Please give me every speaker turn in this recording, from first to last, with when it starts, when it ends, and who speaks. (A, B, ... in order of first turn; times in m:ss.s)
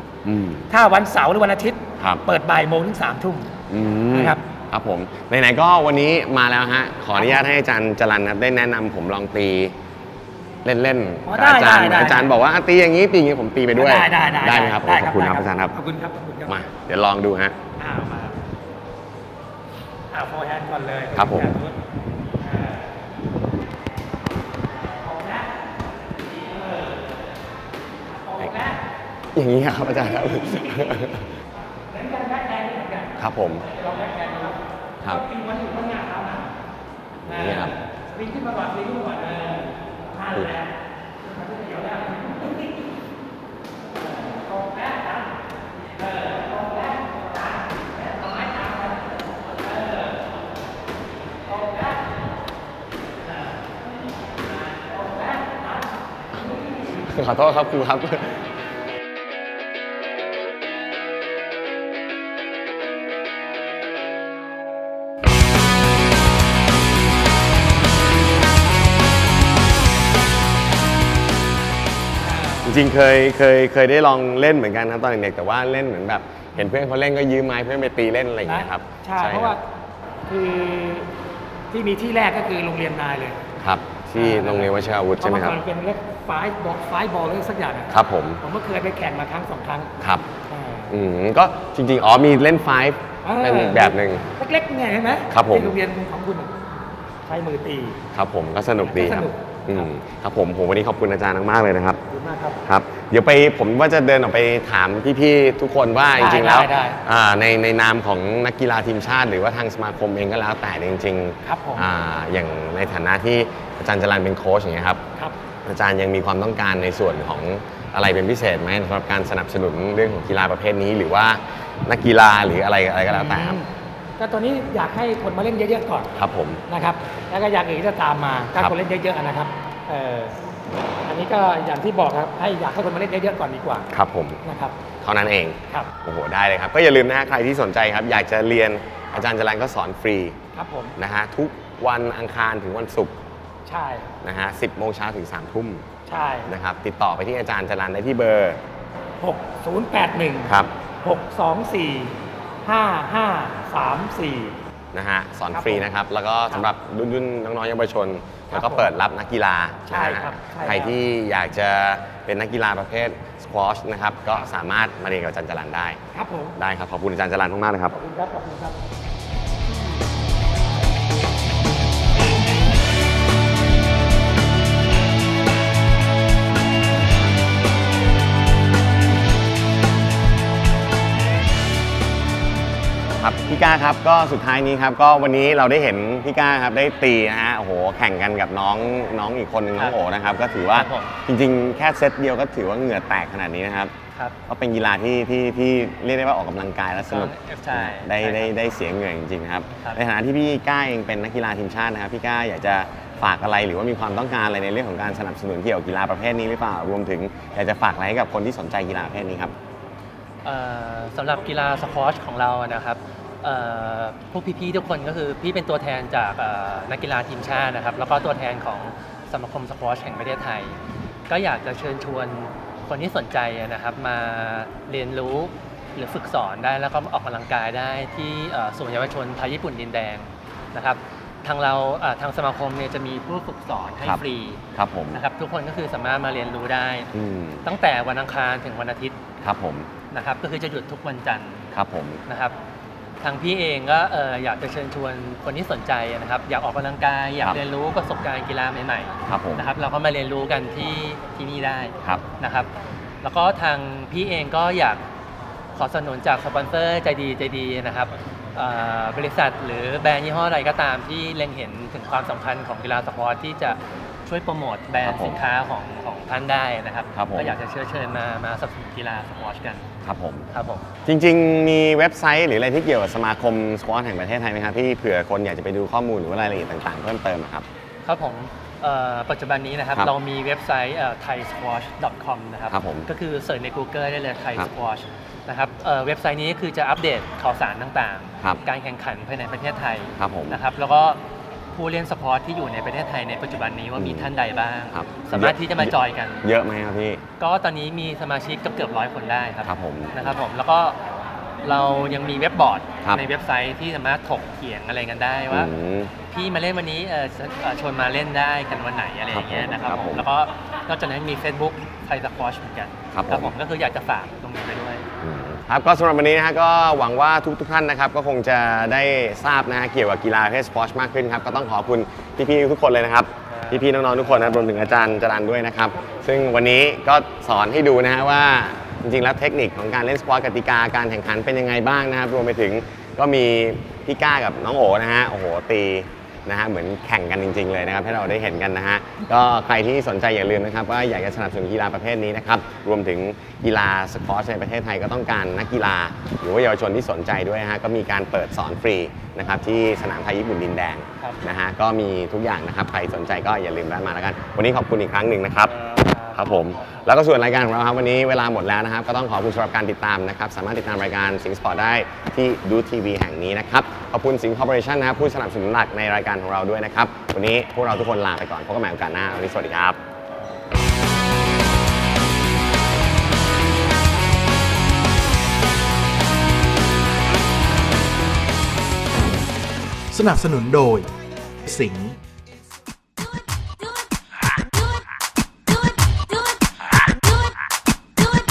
0:00.2-0:00.7 A
0:00.7-0:03.5 B
0:03.7-0:09.7 A
0:04.1-0:04.4 B
0:07.2-0:07.5 B
0:10.6-0:15.7 A
0:11.3-0:12.3 B
0:13.7-0:16.6 B
0:16.5-0:17.6 A
0:17.8-0:18.3 B
0:20.1-0:21.8 B
0:21.1-0:21.5 A
0:22.4-0:22.8 B
0:24.9-0:25.5 B
0:26.3-0:27.1 B
0:28.1-0:28.8 B
0:29.3-0:31.3 A
0:31.9-0:36.5 B
0:33.2-0:33.6 A
0:37.2-0:37.7 A
0:37.2-0:42.8 B
0:40.3-0:40.6 A
0:44.0-0:50.2 B
0:51.5-0:51.9 B
0:54.7-0:55.7 B
0:57.0-0:58.4 A
1:12.2-1:12.8 B
1:12.6-1:19.6 A
1:18.4-1:19.6 B
1:20.3-1:21.1 B
1:21.7-1:23.4 B
1:23.6-1:25.6 A
1:24.2-1:29.9 B
1:27.9-1:28.4 A
1:30.0-1:30.2 A
1:30.5-1:30.9 B
1:30.9-1:34.2 A
1:33.2-1:36.5 B
1:35.3-1:35.7 A
1:37.2-1:38.0 B
1:38.1-1:42.0 A
1:38.8-1:39.4 B
1:42.1-1:42.6 B
1:42.6-1:55.0 A
1:46.2-1:47.0 B
1:51.4-1:51.9 B
1:55.6-2:03.6 A
2:03.1-2:06.1 B
2:06.2-2:06.6 A
2:06.7-2:10.4 B
2:11.0-2:13.9 B
2:13.9-2:14.4 A
2:14.4-2:14.8 B
2:15.0-2:20.4 A
2:20.5-2:21.0 B
2:21.0-2:23.2 A
2:23.6-2:24.1 B
2:24.2-2:25.8 A
2:26.1-2:26.5 B
2:26.5-2:28.6 A
2:29.2-2:34.5 B
2:30.5-2:30.7 A
2:34.9-2:46.0 A
2:35.5-2:35.9 B
2:38.5-2:38.9 B
2:39.9-2:41.0 B
2:46.1-2:46.6 B
2:46.6-2:47.9 A
2:47.9-2:48.8 B
3:03.2-3:13.9 A
3:10.7-3:11.1 C
3:14.5-3:29.5 A
3:17.0-3:18.5 C
3:30.4-3:40.8 C
3:41.3-3:54.6 C
3:54.8-3:55.2 A
3:55.1-3:57.1 C
3:57.1-3:57.6 A
3:57.6-3:59.2 C
3:59.4-3:59.9 A
4:00.1-4:01.6 C
4:01.7-4:02.2 A
4:02.3-4:02.5 C
4:03.2-4:12.7 C
4:09.3-4:09.6 A
4:13.2-4:15.0 C
4:15.7-4:29.9 C
4:25.0-4:25.4 A
4:27.1-4:27.5 A
4:30.0-4:30.5 A
4:30.5-4:30.8 C
4:31.0-4:37.6 A
4:38.0-4:51.2 C
4:42.7-4:43.1 A
4:50.2-4:50.6 A
4:51.7-4:56.4 C
4:54.0-4:54.3 A
4:54.9-4:57.2 A
4:57.4-5:01.0 C
4:59.6-5:00.3 A
5:01.6-5:05.7 C
5:05.5-5:06.1 A
5:06.3-5:15.0 C
5:09.3-5:10.2 A
5:13.1-5:13.5 A
5:15.2-5:55.8 A
5:23.6-5:24.7 C
5:55.8-5:57.1 C
5:56.3-6:10.0 A
6:20.1-6:22.2 D